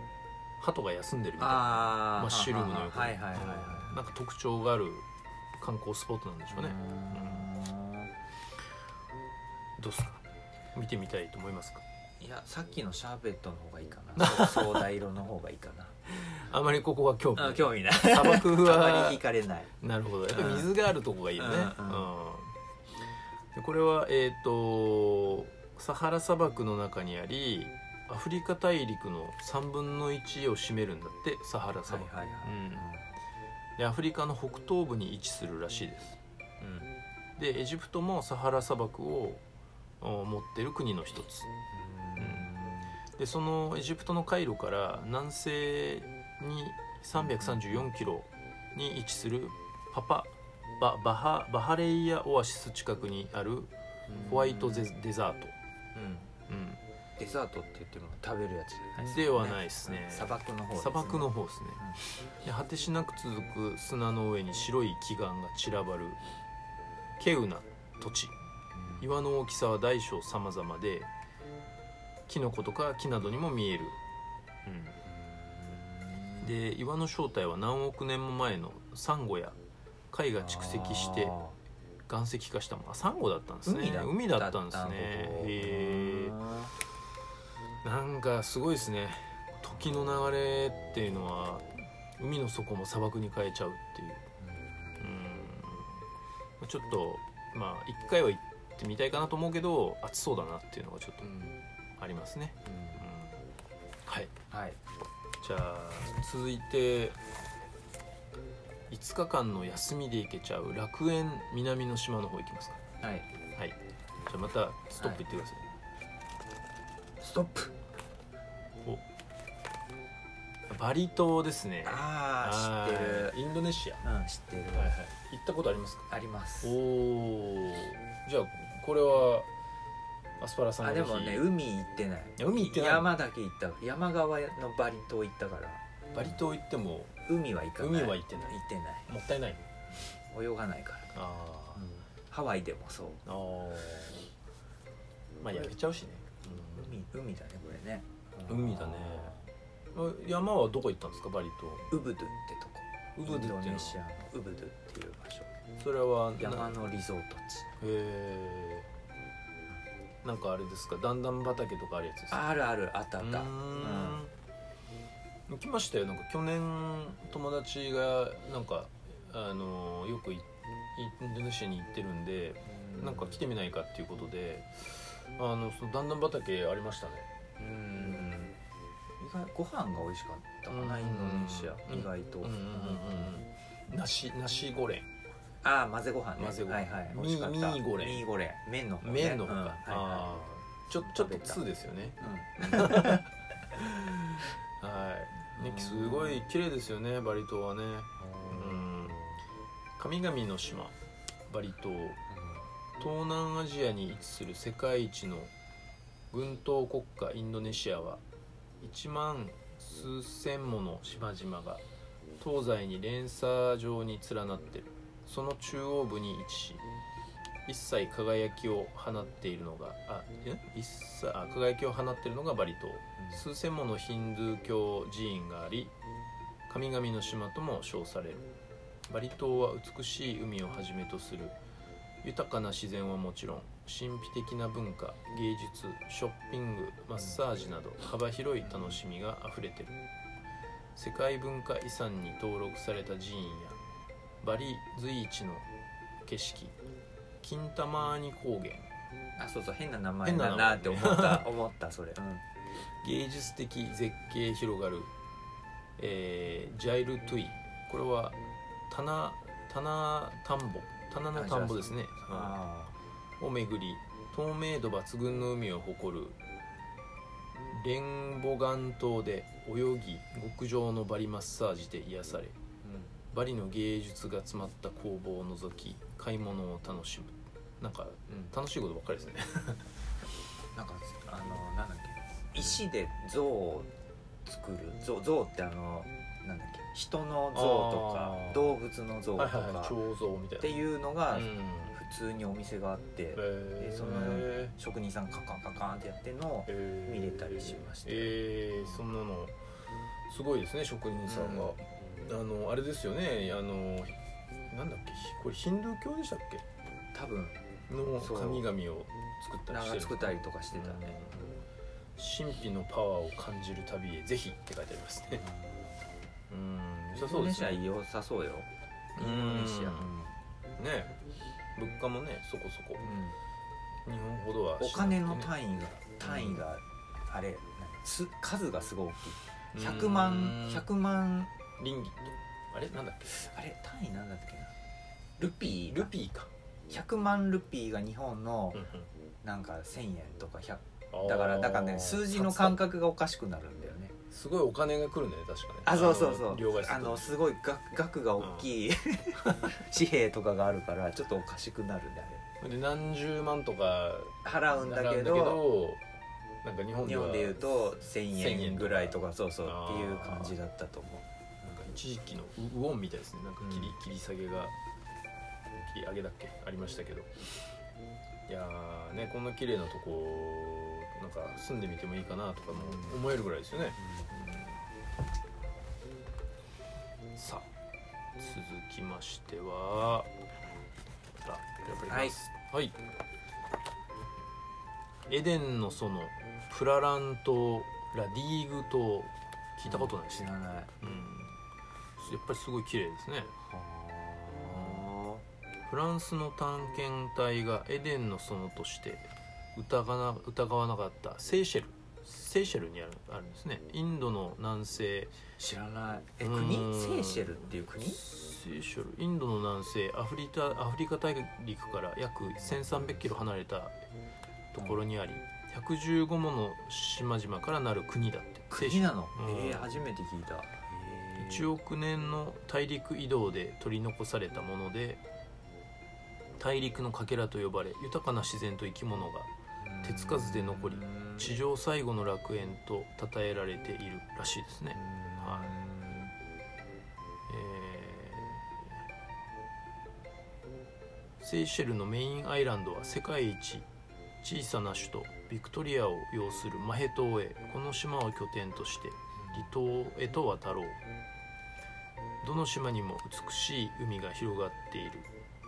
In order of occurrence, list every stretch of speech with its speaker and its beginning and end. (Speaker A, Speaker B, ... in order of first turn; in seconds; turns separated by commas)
Speaker A: 0.6-5.0, Speaker B: 1.4-4.1, Speaker A: 5.6-7.5, Speaker B: 6.5-8.1, Speaker A: 9.8-10.2, Speaker A: 10.7-11.8, Speaker B: 12.2-16.2, Speaker A: 14.2-14.9, Speaker A: 16.3-19.2, Speaker B: 17.4-19.7, Speaker A: 19.8-22.5, Speaker B: 20.3-20.7, Speaker B: 21.4-22.1, Speaker A: 23.5-32.8, Speaker B: 31.9-33.1, Speaker A: 33.8-39.4, Speaker A: 40.0-41.5, Speaker B: 41.7-43.0, Speaker A: 42.2-42.5, Speaker A: 43.1-55.5, Speaker B: 47.2-47.9, Speaker B: 54.1-54.9, Speaker B: 55.9-56.3, Speaker A: 56.5-56.8, Speaker B: 57.2-62.0, Speaker A: 59.0-66.2, Speaker A: 67.2-68.3, Speaker B: 68.7-69.1, Speaker A: 69.0-71.1, Speaker A: 72.3-74.0, Speaker A: 74.7-74.9, Speaker B: 75.0-76.5, Speaker A: 76.4-79.6, Speaker A: 80.1-81.4, Speaker B: 80.4-81.5, Speaker A: 82.1-86.3, Speaker B: 83.6-86.7, Speaker A: 87.8-94.2, Speaker B: 90.8-91.2, Speaker B: 94.4-95.2, Speaker A: 95.0-96.0, Speaker A: 96.6-103.5, Speaker B: 102.6-103.0, Speaker A: 104.1-104.3, Speaker B: 104.5-104.8, Speaker A: 105.4-107.2, Speaker A: 108.9-112.8, Speaker B: 113.0-113.3, Speaker A: 113.5-115.6, Speaker B: 115.0-115.2, Speaker B: 117.2-117.7, Speaker A: 120.7-124.0, Speaker B: 121.8-123.3, Speaker B: 124.0-124.9, Speaker A: 124.7-126.1, Speaker B: 126.1-126.8, Speaker A: 126.6-129.5, Speaker A: 130.4-131.5, Speaker B: 130.8-135.8, Speaker A: 132.4-133.1, Speaker A: 136.1-137.1, Speaker B: 137.2-139.1, Speaker A: 137.8-139.6, Speaker B: 140.1-141.1, Speaker A: 141.1-141.8, Speaker B: 141.8-143.2, Speaker A: 143.2-144.3, Speaker A: 145.4-147.0, Speaker B: 146.7-149.5, Speaker A: 148.5-149.3, Speaker A: 149.9-152.0, Speaker B: 151.9-155.5, Speaker A: 153.2-154.0, Speaker A: 155.8-156.8, Speaker B: 156.3-157.7, Speaker A: 157.8-158.9, Speaker A: 160.2-162.5, Speaker B: 162.3-164.2, Speaker A: 163.2-164.3, Speaker A: 165.5-177.3, Speaker B: 172.6-173.4, Speaker B: 177.6-178.5, Speaker A: 177.9-178.5, Speaker B: 179.2-183.4, Speaker A: 180.7-185.1, Speaker B: 185.6-190.3, Speaker A: 186.4-188.2, Speaker A: 189.0-199.2, Speaker B: 190.9-191.6, Speaker B: 192.2-193.3, Speaker B: 195.5-196.4, Speaker B: 198.2-199.4, Speaker A: 200.0-200.9, Speaker A: 201.5-202.2, Speaker B: 202.3-202.7, Speaker A: 203.0-205.5, Speaker A: 206.3-208.2, Speaker A: 208.8-211.8, Speaker A: 212.4-216.8, Speaker A: 217.7-225.9, Speaker B: 223.2-223.4, Speaker A: 226.7-228.4, Speaker A: 229.1-231.6, Speaker A: 232.2-239.9, Speaker B: 238.6-239.0, Speaker A: 240.9-243.8, Speaker A: 244.4-245.7, Speaker A: 246.2-246.7, Speaker A: 247.4-248.9, Speaker B: 249.4-252.4, Speaker A: 250.2-251.5, Speaker A: 253.0-255.1, Speaker A: 256.0-258.4, Speaker A: 258.9-262.6, Speaker B: 261.3-262.9, Speaker A: 263.4-266.4, Speaker A: 267.6-272.6, Speaker B: 272.8-273.1, Speaker A: 273.3-279.9, Speaker B: 280.7-283.9, Speaker B: 284.4-290.0, Speaker A: 287.5-288.8, Speaker A: 289.4-292.0, Speaker B: 290.6-298.9, Speaker A: 293.4-294.7, Speaker A: 296.7-299.6, Speaker A: 300.3-304.1, Speaker B: 301.2-301.7, Speaker A: 304.7-306.6, Speaker B: 307.1-308.7, Speaker A: 307.9-311.6, Speaker B: 309.7-311.5, Speaker A: 312.1-315.4, Speaker B: 315.3-316.2, Speaker A: 316.5-317.8, Speaker B: 317.1-320.4, Speaker A: 319.1-320.1, Speaker A: 320.8-321.2, Speaker A: 321.8-323.1, Speaker B: 323.0-323.4, Speaker A: 324.0-325.5, Speaker B: 324.8-331.5, Speaker A: 326.2-326.6, Speaker A: 329.7-330.9, Speaker A: 331.8-333.4, Speaker B: 333.3-334.7, Speaker B: 335.4-336.1, Speaker A: 335.9-336.5, Speaker B: 336.9-338.9, Speaker A: 338.7-339.1, Speaker B: 339.4-344.1, Speaker A: 341.1-342.8, Speaker A: 344.3-347.3, Speaker B: 345.8-352.4, Speaker A: 348.4-348.7, Speaker A: 352.6-356.0, Speaker B: 354.4-355.6, Speaker A: 356.6-357.6, Speaker B: 357.0-361.2, Speaker A: 358.3-360.5, Speaker A: 361.6-364.7, Speaker B: 363.6-363.9, Speaker A: 365.8-367.3, Speaker A: 368.5-374.7, Speaker B: 372.7-373.2, Speaker B: 374.0-374.3, Speaker A: 377.3-377.6, Speaker A: 378.4-380.3, Speaker A: 381.4-382.9, Speaker B: 382.1-382.4, Speaker A: 385.3-391.6, Speaker B: 389.9-390.9, Speaker A: 392.2-393.5, Speaker B: 393.6-395.4, Speaker A: 394.7-395.1, Speaker A: 395.9-405.3, Speaker B: 405.6-408.2, Speaker A: 406.4-413.9, Speaker B: 412.6-413.4, Speaker A: 414.7-419.9, Speaker B: 418.7-421.7, Speaker A: 421.4-425.2, Speaker A: 426.6-429.5, Speaker B: 429.8-431.6, Speaker A: 430.0-435.7, Speaker B: 434.9-436.3, Speaker A: 437.5-439.0, Speaker A: 441.4-443.9, Speaker A: 444.4-451.0, Speaker B: 449.4-449.7, Speaker A: 452.4-455.3